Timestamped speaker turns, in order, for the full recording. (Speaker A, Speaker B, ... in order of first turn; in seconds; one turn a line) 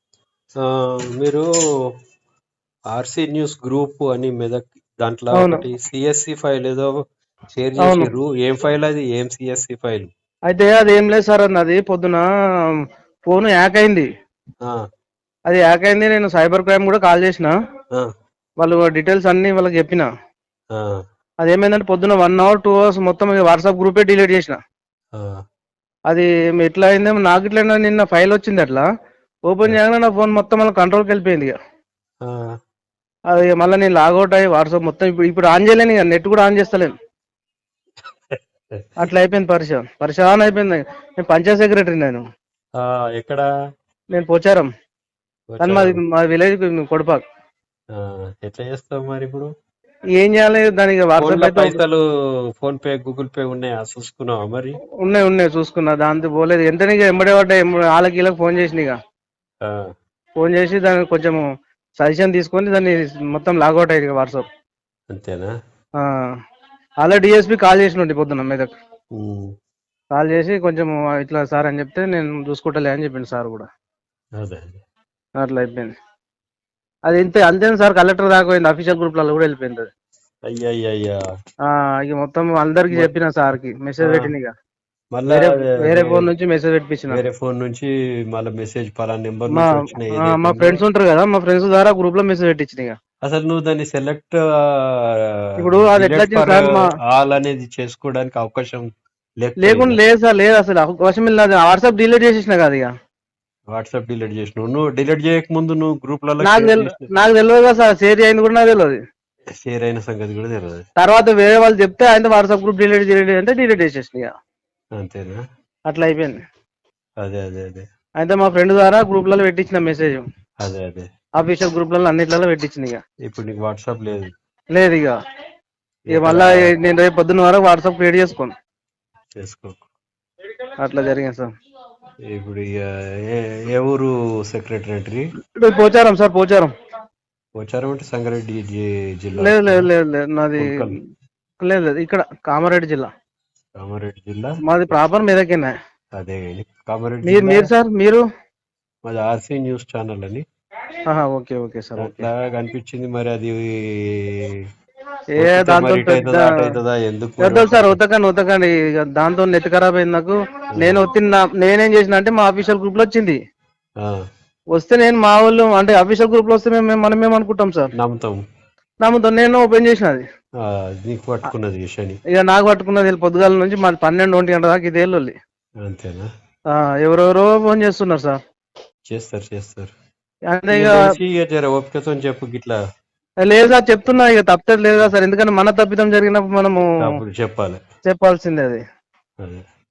Speaker A: 0.6-1.4
Speaker A: 2.9-6.9
Speaker B: 5.3-5.6
Speaker A: 7.5-10.1
Speaker B: 7.8-8.1
Speaker B: 10.5-12.2
Speaker B: 13.3-14.1
Speaker B: 15.5-17.5
Speaker B: 18.6-20.1
Speaker B: 21.4-24.6
Speaker B: 26.1-28.8
Speaker B: 29.5-31.5
Speaker A: 32.2-32.5
Speaker B: 33.3-36.9
Speaker B: 39.0-42.2
Speaker A: 42.8-43.4
Speaker B: 44.1-44.7
Speaker A: 45.5-46.0
Speaker B: 45.6-47.2
Speaker A: 48.0-49.5
Speaker B: 50.2-51.8
Speaker A: 51.2-52.0
Speaker A: 52.6-54.8
Speaker B: 55.0-59.0
Speaker B: 60.4-61.4
Speaker B: 62.0-64.4
Speaker A: 65.1-65.5
Speaker B: 67.0-68.7
Speaker A: 69.2-69.5
Speaker B: 70.1-73.7
Speaker A: 74.4-74.8
Speaker B: 75.4-75.9
Speaker B: 77.1-79.9
Speaker A: 80.5-81.2
Speaker B: 81.7-84.5
Speaker A: 84.0-84.3
Speaker A: 85.1-86.3
Speaker B: 85.3-87.2
Speaker A: 87.1-90.8
Speaker B: 89.5-93.0
Speaker A: 93.2-98.8
Speaker B: 95.6-96.9
Speaker A: 99.4-100.0
Speaker B: 99.6-102.9
Speaker A: 103.7-107.0
Speaker B: 106.4-109.0
Speaker A: 109.6-110.8
Speaker B: 111.0-114.3
Speaker A: 115.0-115.4
Speaker B: 115.9-116.3
Speaker A: 117.2-117.8
Speaker B: 118.2-120.2
Speaker A: 120.6-121.1
Speaker B: 121.4-123.0
Speaker A: 123.2-124.3
Speaker B: 124.7-125.1
Speaker A: 126.1-126.7
Speaker B: 126.1-128.5
Speaker A: 129.3-129.8
Speaker B: 130.8-131.5
Speaker A: 132.3-135.2
Speaker B: 135.6-136.7
Speaker A: 137.6-139.9
Speaker B: 139.4-140.7
Speaker A: 140.6-140.9
Speaker B: 141.6-143.1
Speaker A: 143.8-144.5
Speaker B: 144.6-145.7
Speaker A: 146.2-147.7
Speaker B: 147.3-148.2
Speaker A: 149.1-150.4
Speaker B: 151.1-152.2
Speaker A: 152.0-154.6
Speaker B: 155.3-156.5
Speaker A: 155.4-158.0
Speaker B: 157.4-163.4
Speaker A: 160.8-161.1
Speaker B: 164.7-167.9
Speaker A: 168.0-168.4
Speaker B: 169.0-170.2
Speaker A: 170.6-172.2
Speaker B: 172.3-175.3
Speaker A: 175.8-176.3
Speaker B: 176.7-178.4
Speaker A: 179.1-179.9
Speaker B: 180.5-181.1
Speaker A: 180.7-182.8
Speaker B: 183.4-186.8
Speaker A: 187.0-187.8
Speaker B: 188.0-188.8